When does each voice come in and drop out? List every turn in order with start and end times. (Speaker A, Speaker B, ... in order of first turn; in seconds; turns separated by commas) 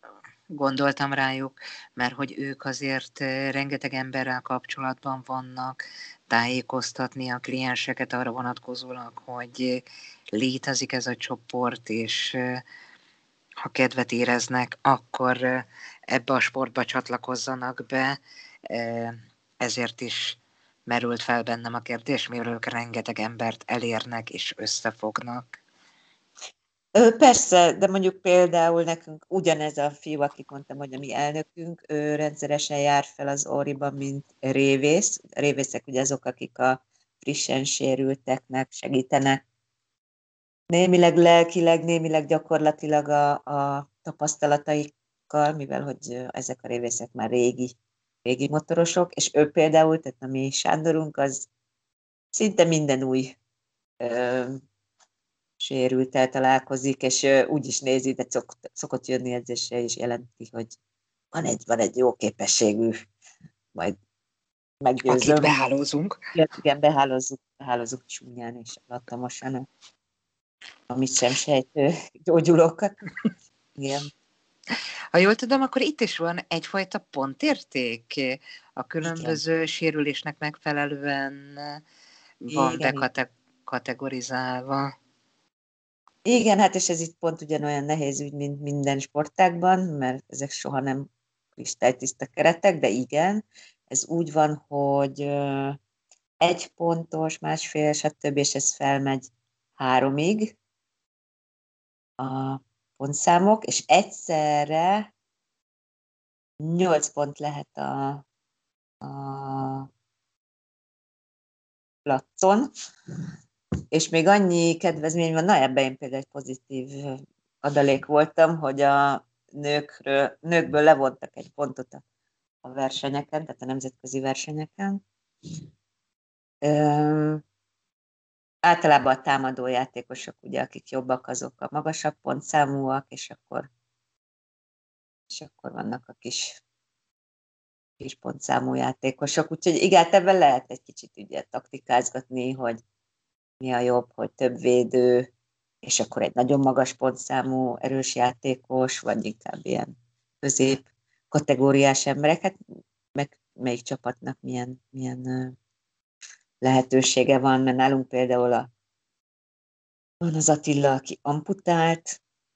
Speaker A: 0.5-12.6, Speaker A: 13.6-25.6, Speaker B: 27.0-39.4, Speaker B: 40.7-47.8, Speaker B: 48.3-51.5, Speaker B: 52.3-53.3, Speaker B: 54.0-54.6, Speaker B: 55.6-60.8, Speaker B: 61.3-63.0, Speaker B: 64.8-65.5, Speaker A: 65.1-66.2, Speaker B: 66.3-69.7, Speaker B: 70.9-72.9, Speaker B: 73.8-74.1, Speaker A: 75.1-81.8, Speaker B: 79.0-79.4, Speaker A: 82.4-84.9, Speaker B: 82.5-83.1, Speaker B: 86.2-95.8, Speaker B: 96.4-100.6, Speaker B: 102.2-105.1, Speaker B: 106.6-108.2, Speaker B: 109.0-109.9, Speaker B: 112.1-112.7, Speaker B: 113.9-122.0, Speaker B: 122.6-125.0, Speaker B: 126.6-127.4, Speaker B: 128.7-133.7, Speaker B: 135.3-136.6, Speaker B: 138.0-142.8, Speaker B: 143.6-145.3, Speaker B: 145.8-152.5, Speaker B: 153.2-155.6, Speaker B: 156.6-158.7, Speaker B: 160.2-162.2